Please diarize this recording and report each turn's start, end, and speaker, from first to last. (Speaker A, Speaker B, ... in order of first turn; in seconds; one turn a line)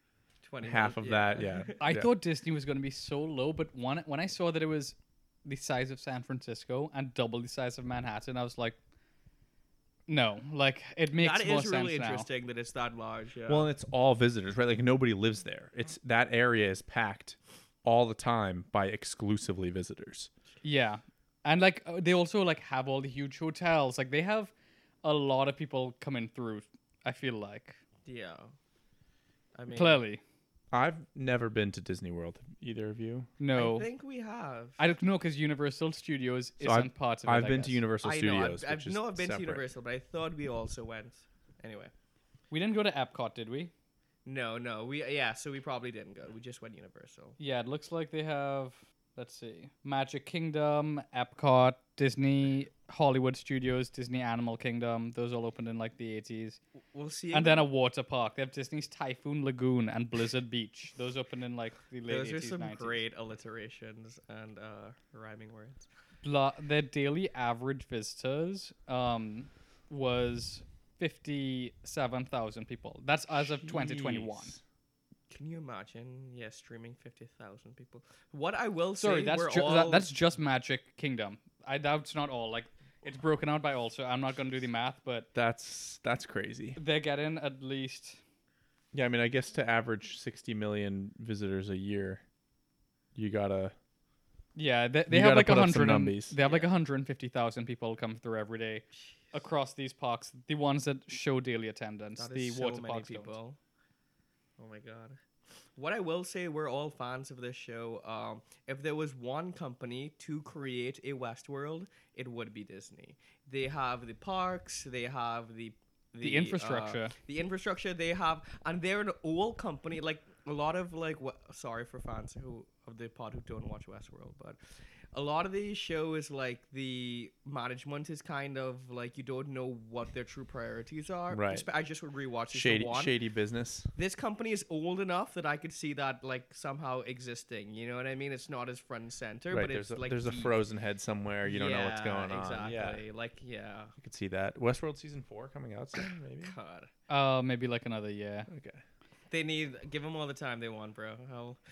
Speaker A: 0.4-1.9
Speaker B: 0.6-2.1
Speaker C: 1.8-8.8
Speaker C: 10.1-12.3
Speaker A: 11.2-13.7
Speaker B: 13.5-20.3
Speaker C: 20.6-24.5
Speaker C: 25.0-27.8
Speaker A: 28.0-28.5
Speaker A: 29.5-30.0
Speaker C: 29.7-30.2
Speaker B: 30.7-33.3
Speaker C: 33.4-33.9
Speaker A: 33.5-34.8
Speaker C: 34.8-37.8
Speaker B: 36.6-39.6
Speaker A: 38.0-41.9
Speaker C: 42.5-43.7
Speaker A: 44.2-47.4
Speaker C: 47.4-56.6
Speaker A: 56.9-57.7
Speaker C: 57.3-63.0
Speaker A: 62.1-65.9
Speaker C: 66.2-74.5
Speaker B: 73.3-74.6
Speaker A: 75.3-80.1
Speaker C: 79.0-85.3
Speaker B: 85.3-86.8
Speaker C: 86.8-88.2
Speaker B: 88.9-92.2
Speaker B: 93.1-93.7
Speaker C: 94.5-103.3
Speaker B: 95.1-96.3
Speaker A: 96.4-96.7
Speaker A: 102.2-103.6
Speaker A: 104.6-105.2
Speaker A: 105.8-124.6
Speaker C: 116.2-117.1
Speaker A: 125.1-133.1
Speaker B: 131.3-131.7
Speaker B: 132.5-133.9
Speaker A: 133.9-140.6
Speaker B: 139.5-143.0
Speaker A: 141.4-143.9
Speaker B: 144.0-146.6
Speaker A: 146.4-146.9
Speaker C: 147.1-148.5
Speaker B: 148.5-148.8
Speaker A: 149.3-151.6